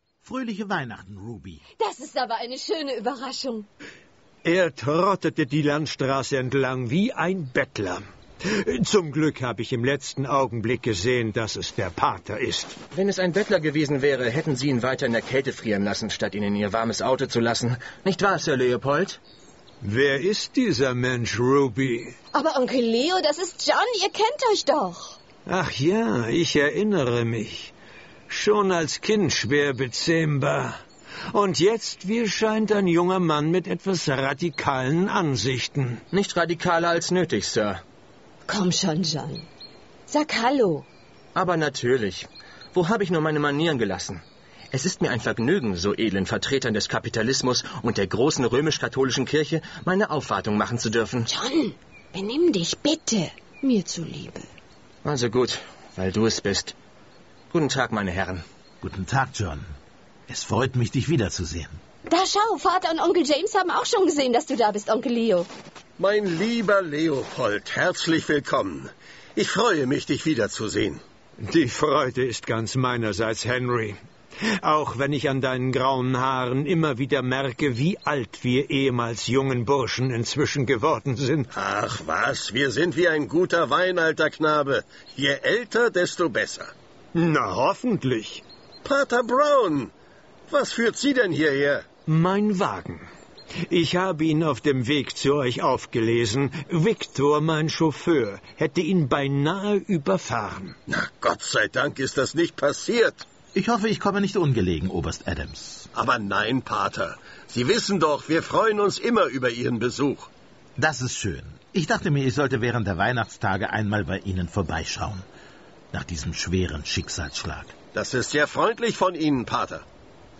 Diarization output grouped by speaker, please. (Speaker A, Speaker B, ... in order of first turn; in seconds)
Speaker A: 0.2-1.6, 58.8-59.7, 60.3-61.8, 103.5-105.9, 110.8-115.3, 115.9-117.8
Speaker B: 1.8-3.7, 22.3-25.2, 38.5-39.5, 40.1-40.9, 51.3-54.5, 62.1-65.5
Speaker C: 4.5-12.8, 19.8-22.2, 25.5-27.7, 28.3-30.8, 31.3-36.0, 71.4-74.0, 74.6-81.5, 87.1-88.4, 92.1-93.1, 93.7-100.8
Speaker D: 12.9-19.2, 36.1-37.8, 41.4-51.3, 55.0-56.8, 57.5-58.4
Speaker E: 66.0-71.0, 81.5-86.7, 88.8-89.9, 90.5-91.8, 100.9-103.3, 105.9-110.3, 117.9-119.8